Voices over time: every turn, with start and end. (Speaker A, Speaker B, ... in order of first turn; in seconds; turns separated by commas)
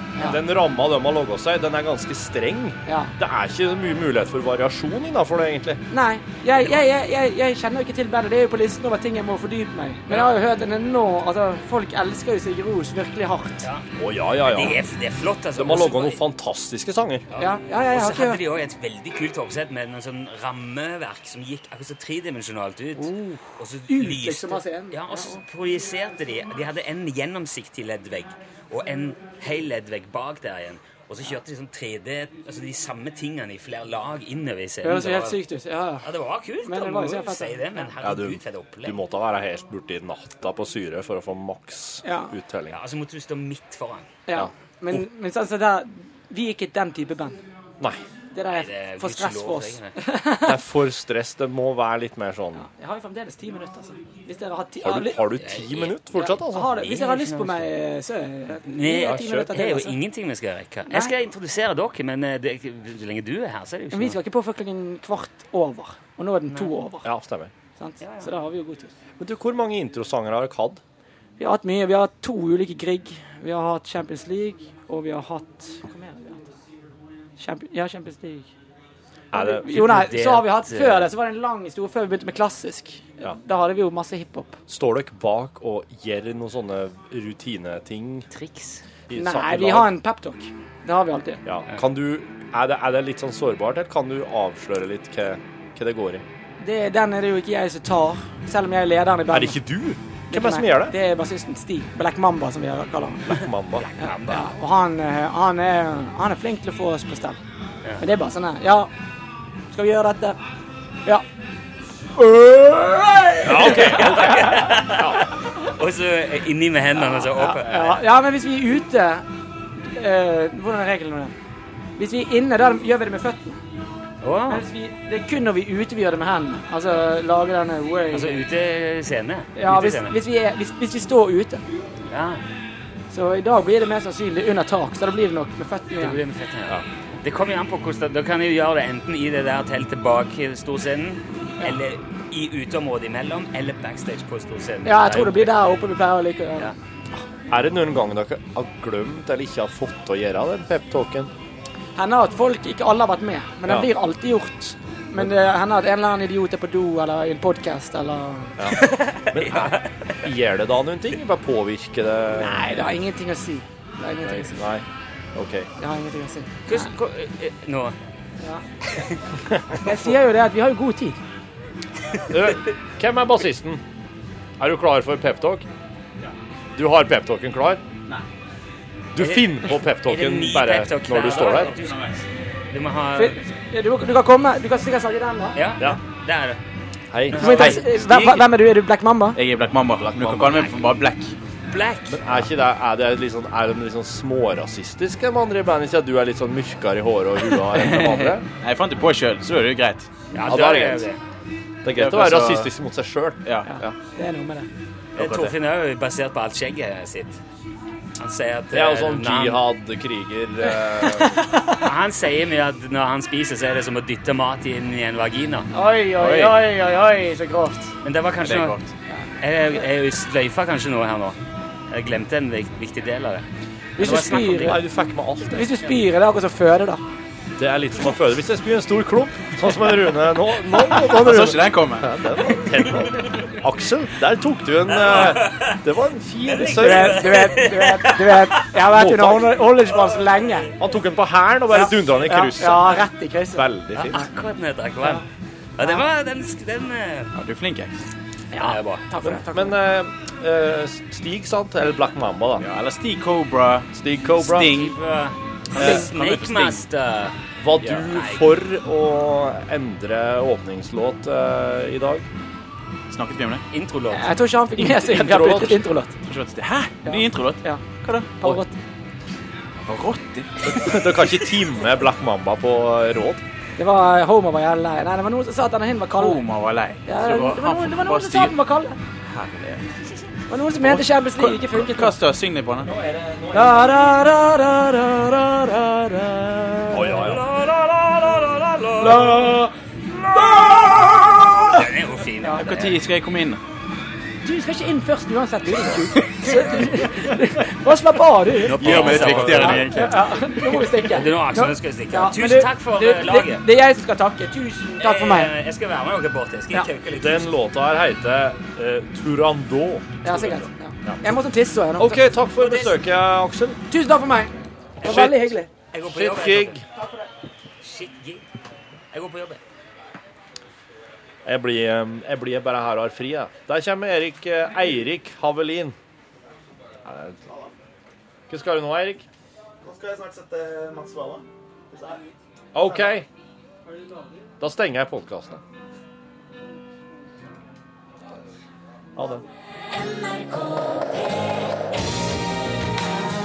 Speaker A: 0.2-5.8, Speaker B: 2.9-3.1, Speaker B: 5.9-13.7, Speaker A: 14.0-14.8, Speaker C: 14.4-16.2, Speaker A: 15.6-17.2, Speaker C: 17.3-35.4, Speaker B: 17.4-18.4, Speaker B: 23.0-25.4, Speaker B: 34.8-36.1, Speaker C: 36.0-39.0, Speaker B: 36.7-37.8, Speaker A: 38.0-42.8, Speaker B: 42.0-42.3, Speaker C: 42.7-44.1, Speaker B: 44.3-47.4, Speaker A: 44.4-45.0, Speaker B: 48.3-50.6, Speaker C: 48.5-49.9, Speaker A: 50.4-52.7, Speaker B: 52.6-55.3, Speaker A: 54.8-56.8, Speaker C: 55.4-56.0, Speaker B: 56.1-60.0, Speaker C: 56.7-57.7, Speaker C: 58.6-64.2, Speaker A: 59.0-59.5, Speaker B: 63.9-67.1, Speaker A: 67.0-67.5, Speaker B: 67.8-68.9, Speaker C: 68.0-68.3, Speaker A: 69.2-70.8, Speaker B: 71.4-76.5, Speaker B: 77.4-78.5, Speaker A: 79.3-79.7, Speaker B: 79.3-84.6, Speaker C: 79.6-81.1, Speaker A: 84.7-88.3, Speaker C: 88.3-88.8, Speaker A: 89.1-89.9, Speaker B: 89.1-91.4, Speaker A: 91.5-96.2, Speaker B: 96.6-99.6, Speaker A: 99.3-101.0, Speaker B: 100.3-103.4, Speaker A: 103.3-103.9, Speaker C: 103.8-104.5, Speaker B: 104.0-107.4, Speaker B: 108.0-108.9, Speaker B: 109.7-110.4, Speaker B: 112.2-114.8, Speaker A: 113.4-115.2, Speaker C: 113.5-118.0, Speaker B: 117.0-119.2, Speaker B: 119.8-121.3, Speaker B: 122.0-123.6, Speaker C: 124.2-124.6, Speaker B: 124.5-128.4, Speaker C: 128.1-130.2, Speaker B: 129.6-131.6, Speaker C: 132.1-132.4, Speaker B: 133.1-136.2, Speaker C: 136.0-145.5, Speaker B: 144.8-146.7, Speaker A: 147.5-151.3, Speaker B: 152.0-159.0, Speaker A: 158.6-162.8, Speaker C: 158.7-160.2, Speaker B: 162.3-164.6, Speaker A: 164.2-164.8, Speaker A: 165.3-165.7, Speaker B: 165.8-166.9, Speaker C: 166.7-167.9, Speaker C: 168.9-170.2, Speaker B: 169.7-171.2, Speaker A: 172.3-173.8, Speaker A: 174.6-175.7, Speaker A: 176.8-177.8, Speaker A: 179.1-181.9, Speaker C: 179.2-182.1, Speaker D: 181.8-182.1, Speaker C: 182.7-183.4, Speaker B: 183.2-185.6, Speaker C: 185.6-186.6, Speaker A: 187.1-187.8, Speaker C: 187.3-187.8, Speaker B: 187.3-189.4, Speaker D: 187.6-188.5, Speaker D: 189.3-191.3, Speaker C: 190.2-190.9, Speaker C: 191.7-192.2, Speaker A: 192.1-198.4, Speaker D: 197.8-200.3, Speaker C: 200.3-201.2, Speaker A: 200.4-201.1, Speaker A: 201.8-203.9, Speaker D: 201.9-202.7, Speaker B: 203.7-204.7, Speaker D: 205.2-205.5, Speaker C: 205.2-207.4, Speaker C: 208.2-209.6, Speaker A: 208.7-211.4, Speaker B: 211.0-211.8, Speaker C: 211.8-215.7, Speaker B: 215.7-217.9, Speaker D: 216.2-216.6, Speaker C: 218.0-218.8, Speaker D: 218.4-218.9, Speaker C: 219.4-221.4, Speaker C: 221.9-223.4, Speaker B: 224.0-224.8, Speaker C: 224.0-224.8, Speaker A: 224.5-225.8, Speaker B: 225.5-227.0, Speaker A: 227.6-237.4, Speaker D: 230.9-232.2, Speaker C: 234.9-235.8, Speaker C: 236.5-238.7, Speaker B: 236.6-240.7, Speaker A: 238.8-239.6, Speaker C: 239.9-240.7, Speaker A: 240.8-244.2, Speaker B: 241.7-244.3, Speaker C: 244.0-245.2, Speaker C: 245.8-247.3, Speaker D: 247.3-248.0, Speaker B: 248.5-249.8, Speaker C: 248.6-249.0, Speaker A: 249.2-252.7, Speaker D: 252.6-255.0, Speaker A: 253.9-254.7, Speaker C: 254.6-257.4, Speaker D: 255.7-256.8, Speaker A: 255.8-256.1, Speaker A: 257.6-262.2, Speaker C: 258.0-258.5, Speaker D: 263.1-263.7, Speaker C: 263.7-264.3, Speaker B: 264.1-266.2, Speaker A: 264.8-265.8, Speaker D: 266.2-268.6, Speaker B: 267.1-268.8, Speaker D: 269.8-271.2, Speaker A: 270.6-273.4, Speaker B: 273.8-276.4, Speaker D: 276.2-278.5, Speaker B: 277.1-279.0, Speaker D: 279.3-279.9, Speaker B: 280.5-282.2, Speaker D: 280.7-282.9, Speaker A: 282.9-284.2, Speaker B: 283.5-287.2, Speaker A: 286.9-287.5, Speaker C: 287.1-289.5, Speaker B: 289.0-289.7, Speaker A: 290.1-291.6, Speaker B: 290.3-291.0, Speaker C: 291.6-293.0, Speaker D: 292.5-293.6, Speaker B: 294.4-299.0, Speaker D: 296.2-296.5, Speaker C: 298.6-300.0, Speaker D: 298.8-300.8, Speaker A: 298.8-299.9, Speaker B: 299.6-305.5, Speaker C: 301.0-303.6, Speaker C: 305.0-307.5, Speaker A: 307.2-311.2, Speaker B: 310.2-312.2, Speaker A: 312.0-313.8, Speaker C: 312.6-313.0, Speaker B: 313.9-314.5, Speaker C: 315.0-315.4, Speaker A: 315.0-315.5, Speaker B: 315.0-315.7, Speaker C: 315.9-316.8, Speaker A: 316.0-316.8, Speaker C: 317.8-318.4, Speaker C: 319.1-319.6, Speaker A: 321.4-326.0, Speaker A: 327.1-327.4, Speaker E: 327.5-327.7, Speaker A: 328.5-329.3, Speaker E: 329.8-333.2, Speaker A: 332.8-333.3, Speaker A: 334.6-335.6, Speaker A: 339.2-339.4, Speaker D: 340.2-341.2